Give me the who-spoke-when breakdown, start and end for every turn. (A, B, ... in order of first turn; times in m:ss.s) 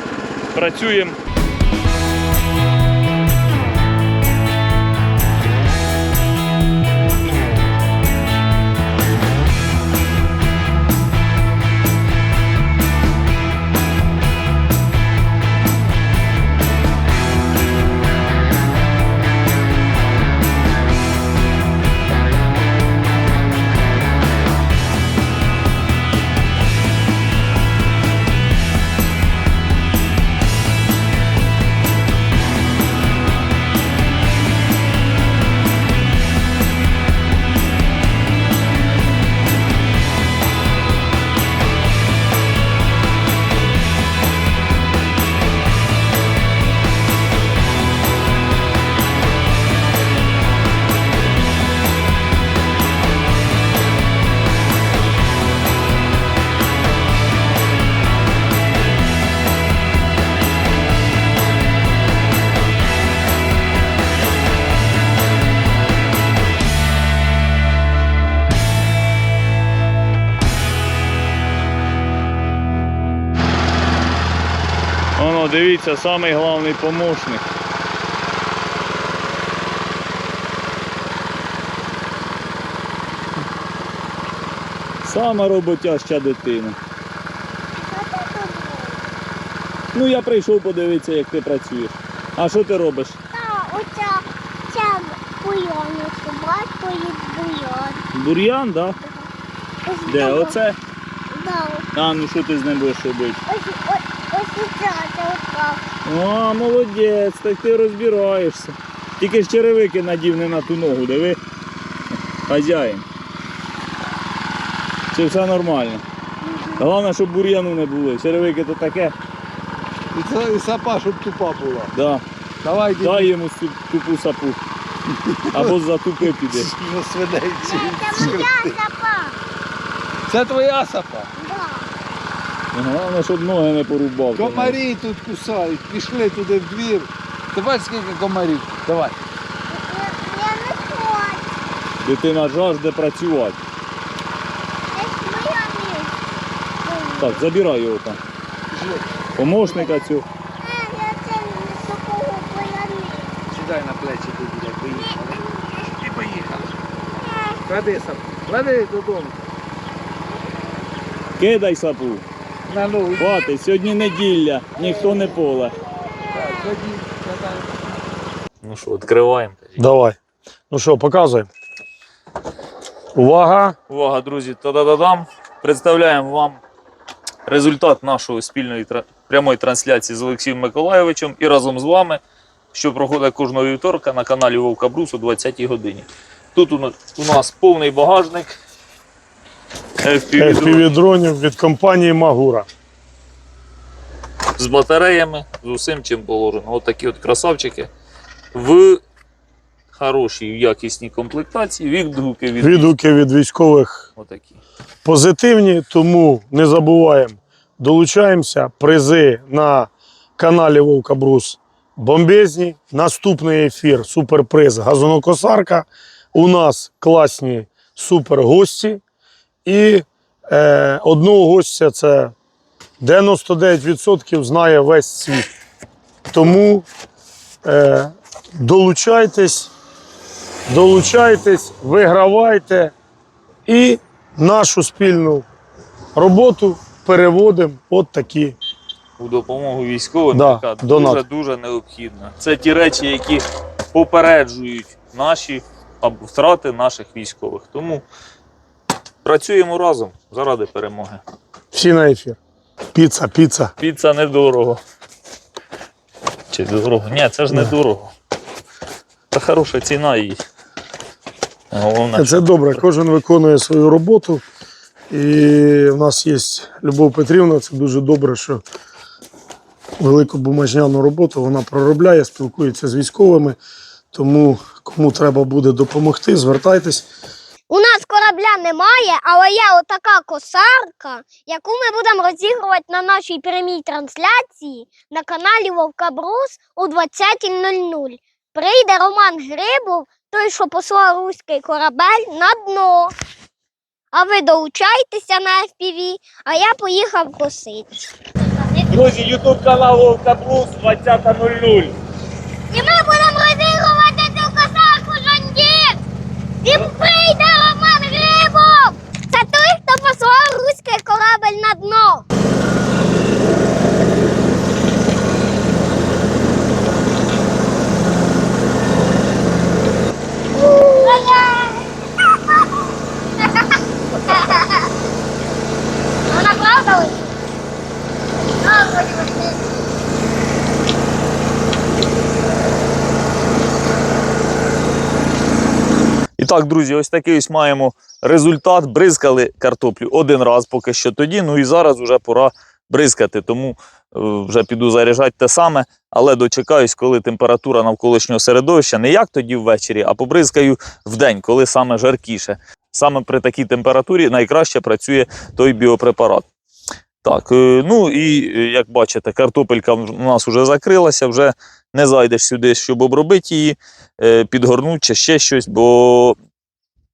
0:00.5-0:01.2 A
1:15.2-1:17.4 A
1:25.0-1:26.8 A
1:27.8-1:29.0 B
1:29.9-1:33.2 A
1:33.3-1:38.0 B
1:38.1-1:39.0 A
1:39.0-1:39.3 B
1:39.8-1:40.6 B
1:40.0-1:40.8 A
1:41.3-1:41.8 B
1:41.9-1:43.4 A
1:43.5-1:45.8 B
1:46.0-1:51.4 A
1:52.5-1:53.0 A
1:55.1-1:56.0 A
1:56.4-1:56.8 B
1:56.8-1:59.1 A
2:00.1-2:01.9 C
2:01.9-2:02.2 A
2:02.6-2:03.3 C
2:03.0-2:04.6 A
2:05.2-2:05.8 C
2:05.5-2:06.7 A
2:06.4-2:08.8 C
2:07.6-2:09.4 B
2:10.3-2:11.3 C
2:11.4-2:11.9 B
2:12.7-2:14.8 A
2:14.4-2:19.1 C
2:19.7-2:21.4 B
2:22.0-2:23.6 A
2:24.9-2:26.1 B
2:26.8-2:27.4 B
2:27.2-2:28.2 A
2:28.7-2:29.0 C
2:29.4-2:30.2 A
2:30.6-2:33.3 B
2:33.5-2:36.7 C
2:35.3-2:35.8 B
2:37.1-2:37.6 B
2:37.6-2:39.4 C
2:41.4-2:42.2 A
2:42.7-2:43.3 C
2:43.2-2:45.7 A
2:46.3-2:48.0 C
2:48.6-2:49.8 A
2:49.8-2:50.2 D
2:50.7-2:51.5 D
2:53.1-2:53.8 D
2:53.9-2:56.6 A
2:57.5-3:02.2 A
3:02.7-3:08.6 A
3:10.0-3:10.9 A
3:10.4-3:12.7 D
3:14.6-3:17.9 A
3:18.5-3:19.0 A
3:19.9-3:22.9 A
3:22.6-3:24.1 D
3:24.2-3:24.6 A
3:25.0-3:39.0 D
3:39.6-3:42.3 D
3:43.0-3:45.5 D
3:46.3-3:46.9 D
3:47.6-3:49.7 D
3:50.7-3:52.9 D
3:53.7-3:55.4 D
3:56.1-3:58.6 D
3:59.2-4:08.0 A
4:00.3-4:01.2 D
4:09.2-4:11.2 A
4:11.7-4:12.4 D
4:12.9-4:13.7 D
4:13.8-4:14.8 A
4:16.5-4:18.1 A
4:19.3-4:20.4 A
4:21.7-4:22.8 A
4:22.1-4:24.4 D
4:25.1-4:28.6 D
4:30.0-4:33.6 D
4:34.1-4:37.1 D
4:37.7-4:53.1 B
4:54.1-4:57.9 B
4:58.9-5:01.9 A
5:02.7-5:06.0 B
5:06.6-5:12.2 B
5:20.5-5:22.4 B
5:23.4-5:24.9 B
5:26.3-5:27.3 B
5:28.6-5:29.6 B
5:36.4-5:56.5 A
5:57.2-6:06.4 A